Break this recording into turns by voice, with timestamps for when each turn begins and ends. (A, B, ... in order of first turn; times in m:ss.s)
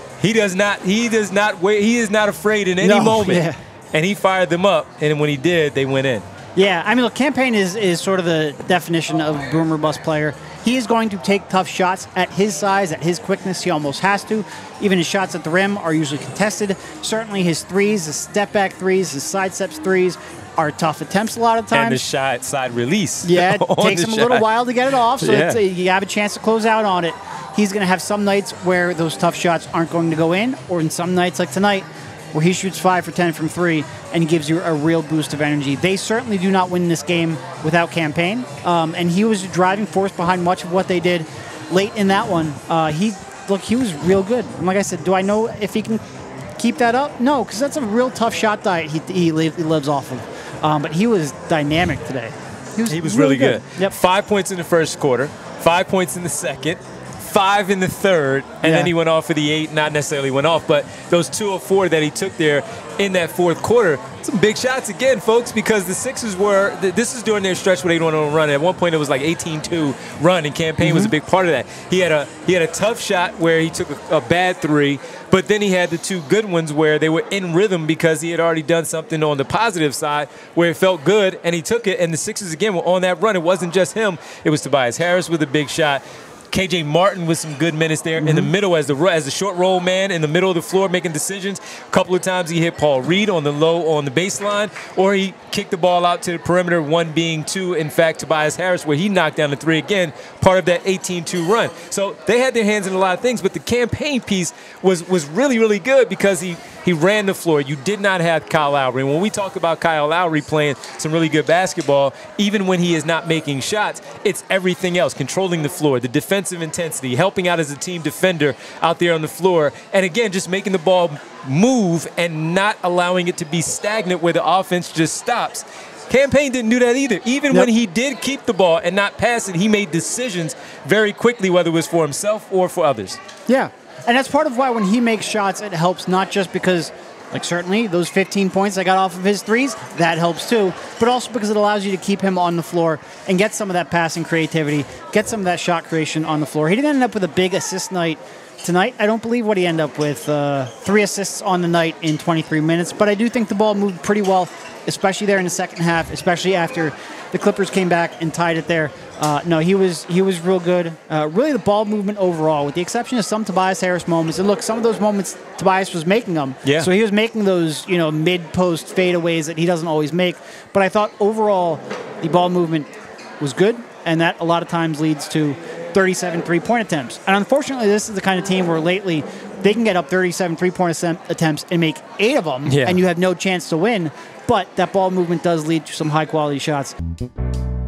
0:00.2-0:06.2 A
0:02.8-0:03.6 B
0:06.6-0:22.0 B
0:21.7-0:24.5 A
0:23.2-0:46.0 B
0:25.2-0:25.6 A
0:46.6-0:53.9 B
0:52.9-2:13.2 A
0:58.6-0:58.9 B
1:10.8-1:11.1 B
1:28.2-1:28.5 B
2:13.5-3:06.9 B
2:46.6-2:46.9 A
3:02.6-3:03.0 A